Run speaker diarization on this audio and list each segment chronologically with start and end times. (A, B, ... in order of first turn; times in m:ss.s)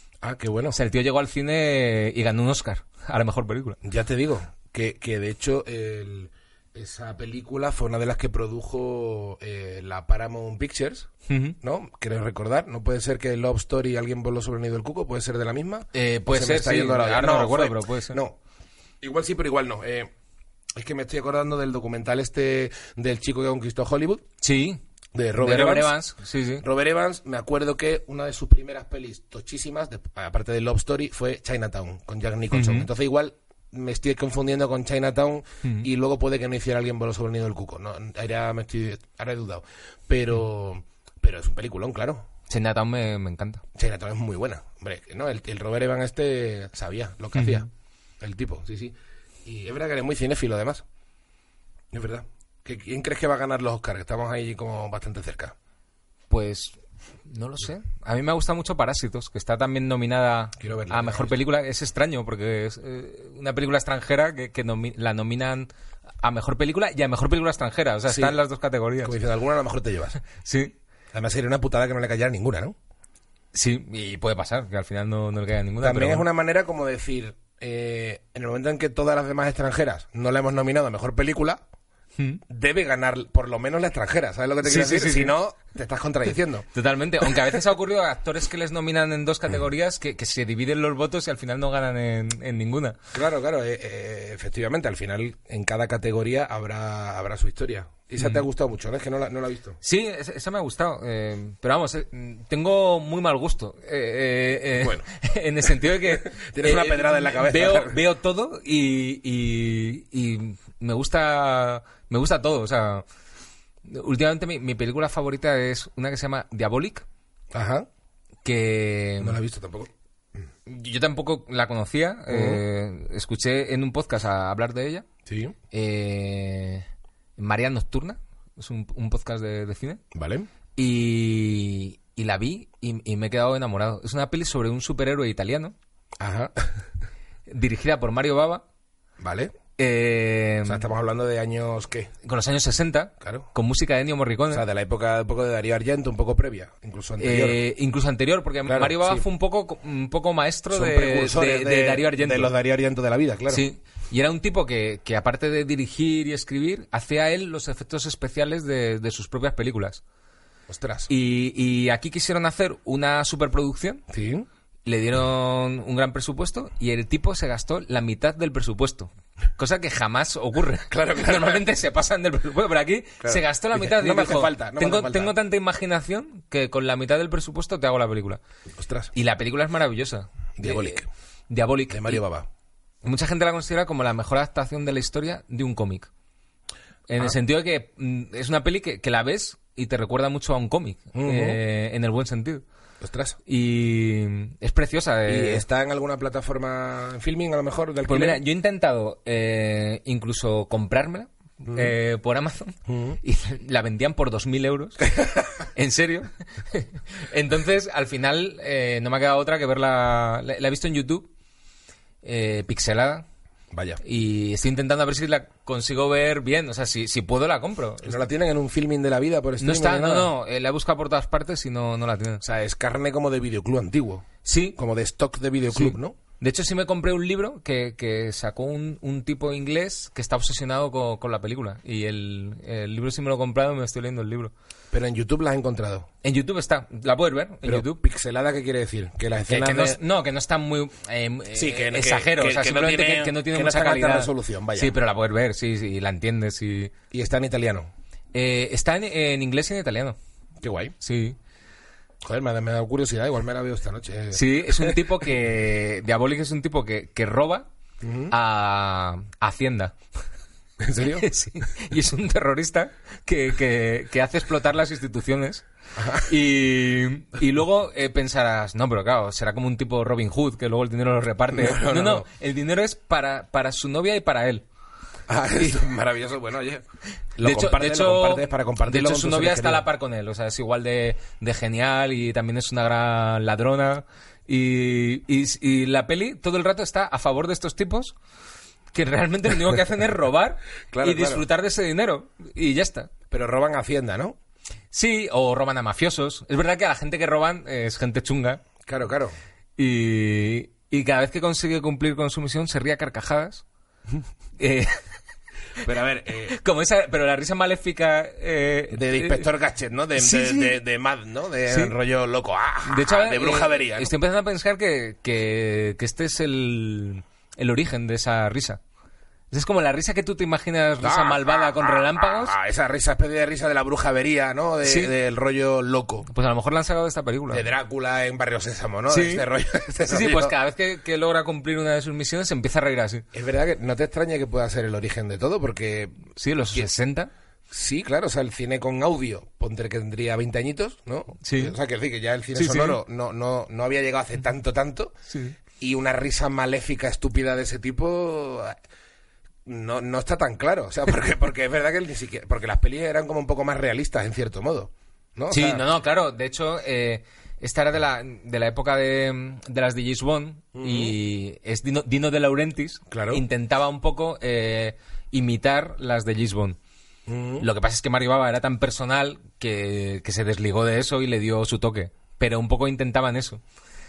0:00.2-0:00.8 A
0:00.7-0:03.8 B
0:03.8-0:11.1 A
0:11.3-0:11.6 B
0:11.6-0:18.4 A
0:15.9-0:18.2 B
0:19.0-0:20.1 A
0:20.8-0:24.2 A
0:24.4-0:24.8 B
0:25.1-0:26.0 A
0:25.4-0:26.6 B
0:26.6-0:42.3 A
0:32.5-0:32.9 B
0:42.5-0:43.6 B
0:43.8-0:47.7 A
0:47.4-0:47.6 B
0:48.2-0:48.9 A
0:49.4-0:50.8 A
0:51.9-0:55.6 A
0:56.3-1:05.7 B
1:00.6-1:01.3 A
1:06.2-1:09.1 B
1:08.1-1:08.4 A
1:09.0-1:10.2 A
1:10.4-1:10.7 B
1:11.1-1:12.8 A
1:13.5-1:16.3 B
1:15.8-1:21.6 A
1:22.5-1:26.7 A
1:24.6-1:25.3 B
1:26.7-1:33.0 B
1:33.1-1:39.8 A
1:39.8-1:53.0 B
1:44.8-1:45.1 A
1:46.3-1:48.0 A
1:53.8-1:57.0 B
1:57.5-1:57.9 A
1:58.4-1:59.4 B
1:59.2-1:59.9 A
2:00.7-2:05.1 B
2:02.3-2:02.6 A
2:05.3-2:05.6 A
2:05.7-2:06.8 B
2:07.4-2:10.0 B
2:10.1-2:10.5 A
2:10.8-2:15.7 B
2:16.2-2:16.5 A
2:17.5-2:18.6 B
2:19.2-2:19.5 A
2:19.8-2:20.9 B
2:20.7-2:22.1 A
2:22.2-2:24.6 B
2:23.2-2:23.5 A
2:24.5-2:27.6 A
2:27.2-2:32.5 B
2:28.7-2:29.2 A
2:30.7-2:33.6 A
2:33.5-2:40.0 B
2:40.7-2:41.1 A
2:41.1-2:44.0 B
2:44.1-2:44.5 A
2:44.9-2:58.4 B
2:50.9-2:51.6 A
2:53.2-2:55.3 A
2:58.8-2:59.1 A
2:59.1-3:02.2 B
3:00.6-3:01.1 A
3:01.9-3:02.5 A
3:03.0-3:06.1 B
3:07.1-3:12.6 B
3:11.1-3:11.6 A
3:13.0-3:13.4 A
3:13.5-3:15.6 B
3:15.3-3:18.4 A
3:18.1-3:31.3 B
3:21.7-3:21.9 A
3:22.9-3:23.2 A
3:32.2-3:33.2 B
3:33.7-3:34.0 A
3:34.0-3:38.2 B
3:38.0-3:40.3 A
3:39.6-3:42.4 B
3:42.4-3:46.2 A
3:44.4-3:44.8 B
3:45.7-3:54.5 B
3:54.9-3:56.1 A
3:56.2-3:58.0 B
3:57.6-4:00.0 A
3:59.5-4:06.9 B
4:01.6-4:05.0 A
4:07.1-4:07.9 A
4:08.3-4:10.2 B
4:10.6-4:11.0 A
4:11.0-4:11.4 B
4:12.2-4:15.0 A
4:14.3-4:17.7 B
4:18.0-4:18.3 A
4:18.3-4:20.0 B
4:20.8-4:21.2 A
4:21.0-4:34.7 B
4:26.0-4:26.3 A
4:31.5-4:32.3 A
4:35.3-4:36.8 A
4:37.4-4:39.9 A
4:37.4-4:48.1 B
4:48.9-4:53.1 B
4:50.9-4:51.4 A
4:53.3-4:54.4 A
4:54.9-4:58.6 B
4:58.8-4:59.3 A
4:59.8-5:03.6 B
5:04.6-5:05.0 B
5:05.8-5:06.6 A
5:06.5-5:09.5 B
5:08.9-5:14.1 A
5:10.2-5:10.8 B
5:11.7-5:11.9 B
5:12.8-5:18.8 B
5:19.5-5:22.6 B
5:21.0-5:26.3 A
5:24.8-5:25.1 B
5:26.3-5:27.7 B
5:27.5-5:30.6 A
5:29.1-5:29.4 B
5:30.1-5:33.3 B
5:33.3-5:36.9 A
5:36.4-5:37.3 B
5:37.7-5:45.1 A
5:41.4-5:41.8 B
5:42.6-5:43.0 B
5:45.3-5:45.6 B
5:45.8-5:48.8 A
5:49.7-5:55.8 A
5:55.5-6:06.8 B
6:00.8-6:01.1 A
6:03.1-6:03.4 A
6:07.3-6:07.7 A
6:07.6-6:13.6 B